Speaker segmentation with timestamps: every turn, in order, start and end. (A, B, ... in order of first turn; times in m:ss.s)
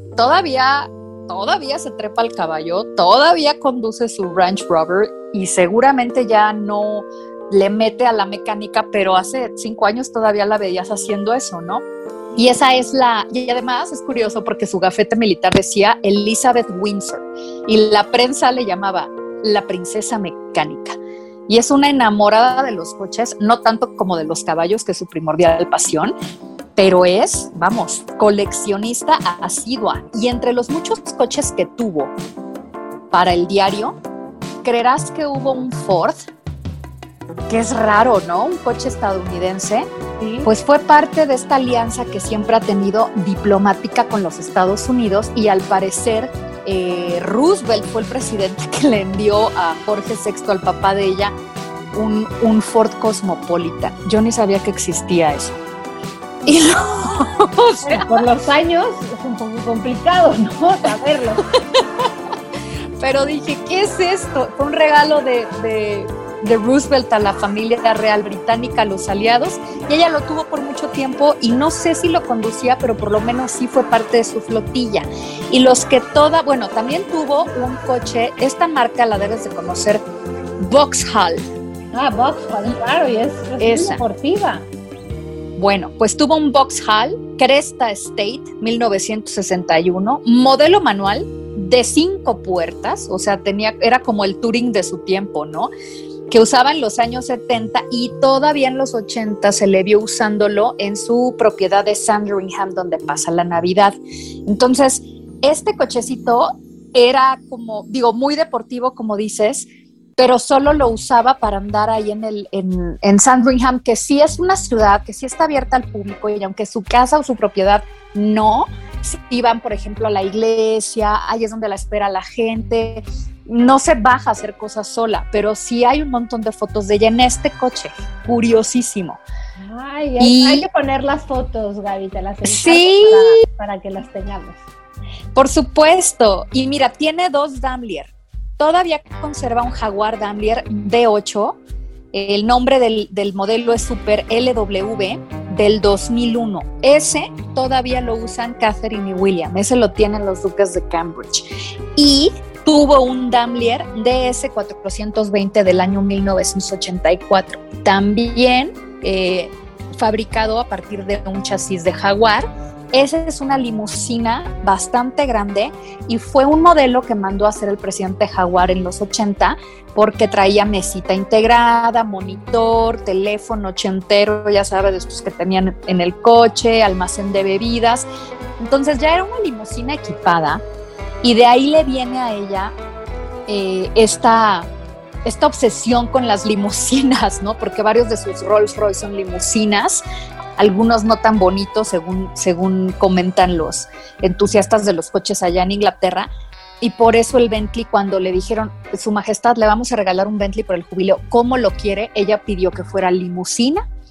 0:00.2-0:11.8 A
0:12.4-0:26.1 A
0:26.8-0:32.1 A
0:33.1-0:34.0 A
0:34.6-0:36.3 A
0:37.5-0:39.9 A
0:40.2-0:40.5 B
0:40.4-0:51.4 A
0:51.9-0:55.6 A
0:56.5-0:58.2 A
0:57.8-1:01.4 B
1:03.0-1:20.0 A
1:20.6-1:21.4 A
1:21.9-1:24.6 B
1:23.6-1:24.0 A
1:25.6-1:35.7 A
1:36.3-2:09.2 A
2:09.6-2:14.6 B
2:10.2-2:10.7 A
2:12.4-2:13.4 A
2:15.4-2:21.6 A
2:22.1-2:58.1 A
2:58.6-3:00.6 A
3:01.2-3:02.7 A
3:03.5-3:04.7 A
3:05.2-3:10.0 A
3:10.6-3:16.3 A
3:16.8-3:23.8 A